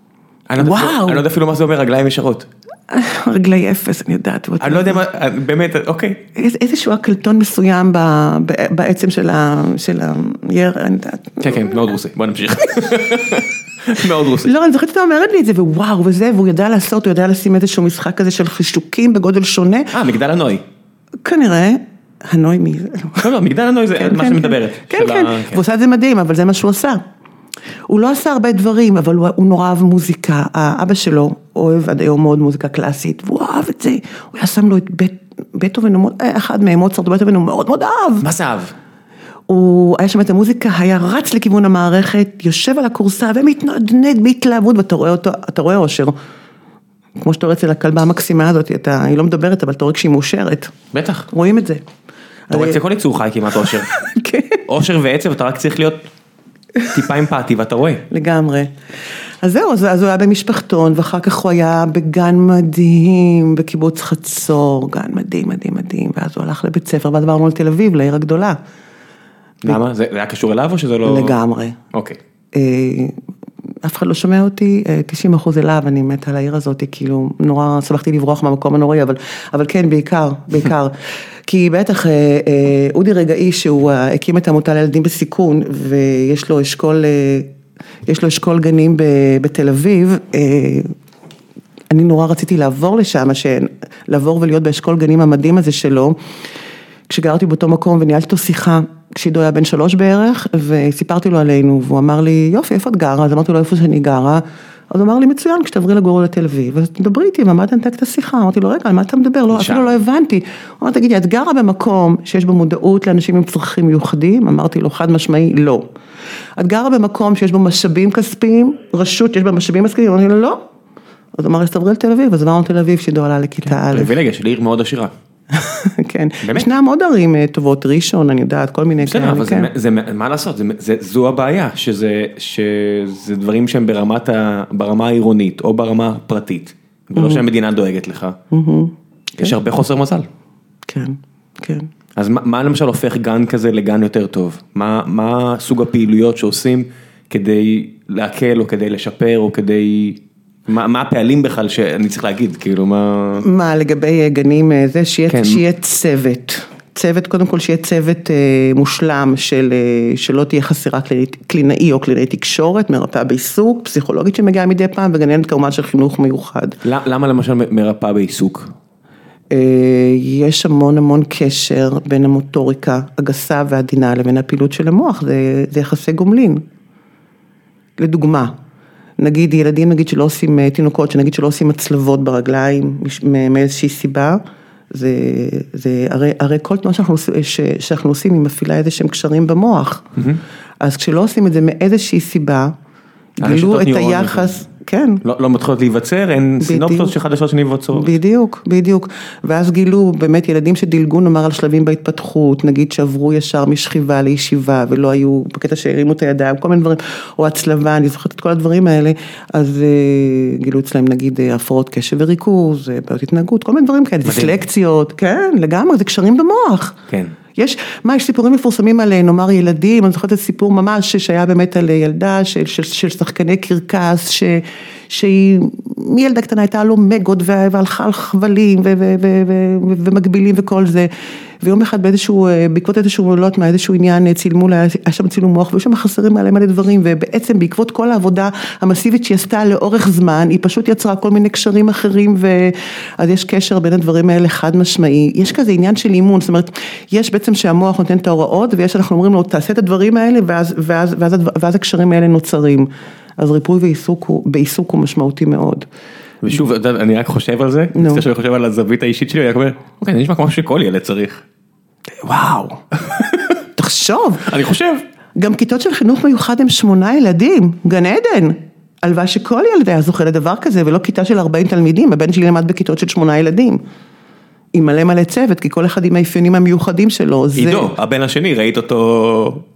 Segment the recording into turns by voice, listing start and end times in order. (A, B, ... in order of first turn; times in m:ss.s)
0:00.5-0:02.5 A
0:00.6-0:01.2 B
0:02.9-0:05.0 B
0:04.6-0:06.2 A
0:06.3-0:11.7 B
0:11.4-0:14.5 A
0:14.4-0:19.9 B
0:19.9-0:20.6 A
0:21.2-0:23.3 B
0:23.2-0:25.6 A
0:24.0-0:27.0 B
0:27.9-0:38.3 B
0:38.2-0:38.7 A
0:39.5-0:46.1 B
0:47.2-0:50.7 B
0:50.9-0:51.3 A
0:51.3-0:51.8 B
0:52.5-0:52.8 B
0:52.5-0:53.9 A
0:53.9-0:54.6 B
0:54.6-0:56.0 A
0:56.8-0:58.0 A
0:58.1-0:58.7 B
0:59.4-1:08.6 B
1:09.6-1:11.4 A
1:11.0-1:11.8 B
1:11.9-1:12.2 A
1:12.5-1:13.2 B
1:13.8-1:27.5 B
1:28.0-1:30.9 B
1:31.9-1:36.2 B
1:37.1-1:55.9 B
1:49.5-1:49.9 A
1:56.6-2:00.6 B
2:01.3-2:04.1 B
2:03.8-2:05.1 A
2:05.5-2:09.7 B
2:06.4-2:06.7 A
2:09.0-2:18.4 A
2:17.2-2:17.4 B
2:18.5-2:19.5 B
2:19.4-2:20.3 A
2:20.9-2:21.9 B
2:22.2-2:33.4 A
2:33.4-2:46.8 B
2:35.3-2:35.6 A
2:46.8-2:48.7 A
2:49.5-2:56.6 B
2:58.0-2:58.5 B
2:59.2-3:04.4 B
3:04.9-3:10.1 B
3:10.8-3:12.8 B
3:13.4-3:15.2 B
3:13.4-3:14.6 A
3:15.2-3:18.1 A
3:16.6-3:17.1 B
3:17.9-3:37.0 B
3:34.2-3:34.6 A
3:37.1-3:37.4 A
3:37.5-3:51.1 B
3:51.6-4:15.8 B
4:16.4-4:21.4 A
4:17.9-4:18.2 B
4:22.2-4:22.8 B
4:23.0-4:23.6 A
4:23.8-4:24.5 B
4:24.4-4:25.0 A
4:25.4-4:33.8 B
4:34.7-4:37.9 B
4:37.6-4:39.6 A